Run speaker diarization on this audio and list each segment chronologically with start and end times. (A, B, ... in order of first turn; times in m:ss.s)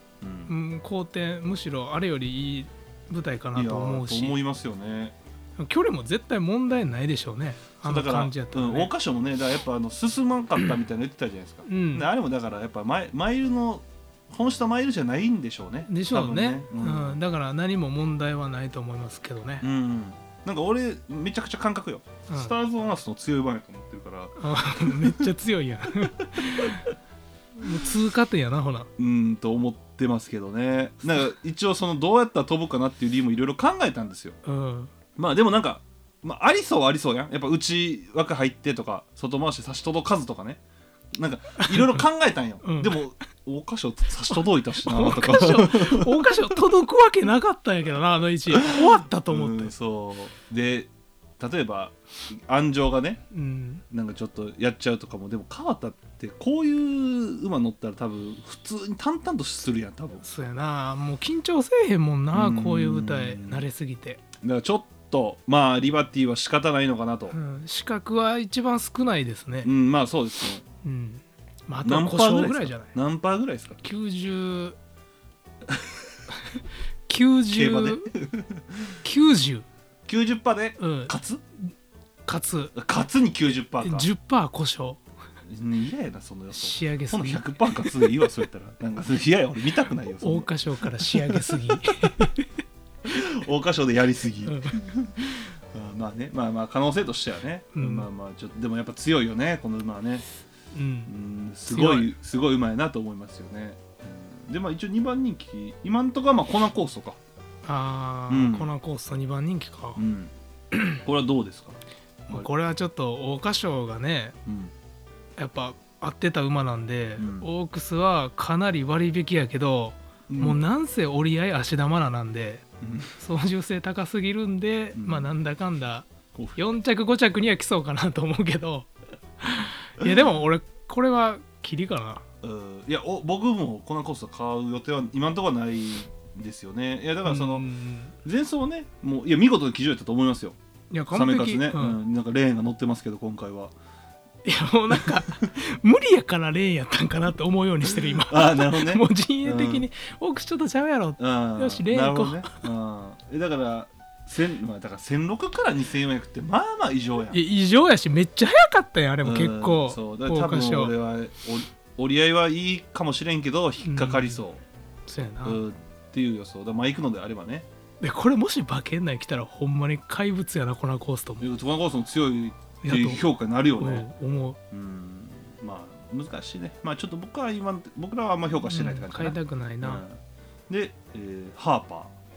0:00.2-0:00.5 A
0:00.5-0:04.4 B
0:03.6-0:05.2 A
0:05.6-0:08.9 B
0:07.8-0:17.2 A
0:11.7-0:12.1 B
0:15.9-0:19.7 B
0:19.6-0:25.3 A
0:24.4-0:26.9 B
0:27.6-0:28.9 B
0:29.0-0:34.4 A
0:34.4-0:34.9 B
0:35.2-0:40.6 A
0:41.1-0:46.3 A
0:41.6-0:42.0 B
0:42.6-0:43.0 B
0:44.8-0:49.7 B
0:48.5-0:53.2 A
0:53.3-0:53.8 B
0:53.9-1:00.2 A
1:00.2-1:04.2 B
1:02.3-1:03.6 A
1:04.4-1:07.4 A
1:07.3-1:09.7 B
1:09.6-1:10.6 A
1:10.8-1:12.9 B
1:11.8-1:13.8 A
1:13.8-1:14.8 B
1:15.7-1:16.0 A
1:17.1-1:18.1 B
1:17.5-1:19.0 A
1:19.0-1:19.7 B
1:20.1-1:21.4 A
1:20.8-1:21.1 B
1:22.3-1:22.8 B
1:22.8-1:24.1 A
1:23.8-1:25.0 B
1:25.4-1:32.3 A
1:26.6-1:28.1 B
1:30.2-1:32.5 B
1:33.0-1:40.3 A
1:34.4-1:34.8 B
1:37.7-1:38.1 B
1:40.7-1:41.1 B
1:41.1-1:47.2 A
1:41.7-1:42.1 B
1:47.6-1:50.0 B
1:48.3-1:48.7 A
1:50.0-1:50.3 A
1:50.7-1:51.0 B
1:51.0-1:51.8 A
1:52.3-1:54.4 B
1:54.5-1:54.7 A
1:55.4-2:02.6 B
1:57.2-1:57.5 A
2:00.3-2:00.6 A
2:02.8-2:03.1 A
2:03.2-2:08.9 B
2:05.0-2:05.3 A
2:09.4-2:12.2 B
2:10.0-2:10.3 A
2:12.4-2:17.7 A
2:17.2-2:18.1 B
2:18.2-2:20.6 A
2:20.9-2:22.0 B
2:21.1-2:23.7 A
2:24.4-2:32.6 B
2:28.0-2:29.8 A
2:31.2-2:37.4 A
2:37.3-2:41.0 B
2:39.2-2:44.6 A
2:43.8-2:44.4 B
2:45.1-2:45.6 B
2:45.4-2:47.7 A
2:48.0-2:51.5 B
2:51.4-2:54.1 A
2:52.8-2:53.2 B
2:53.8-2:54.6 B
2:54.7-3:02.1 A
2:58.7-3:00.0 B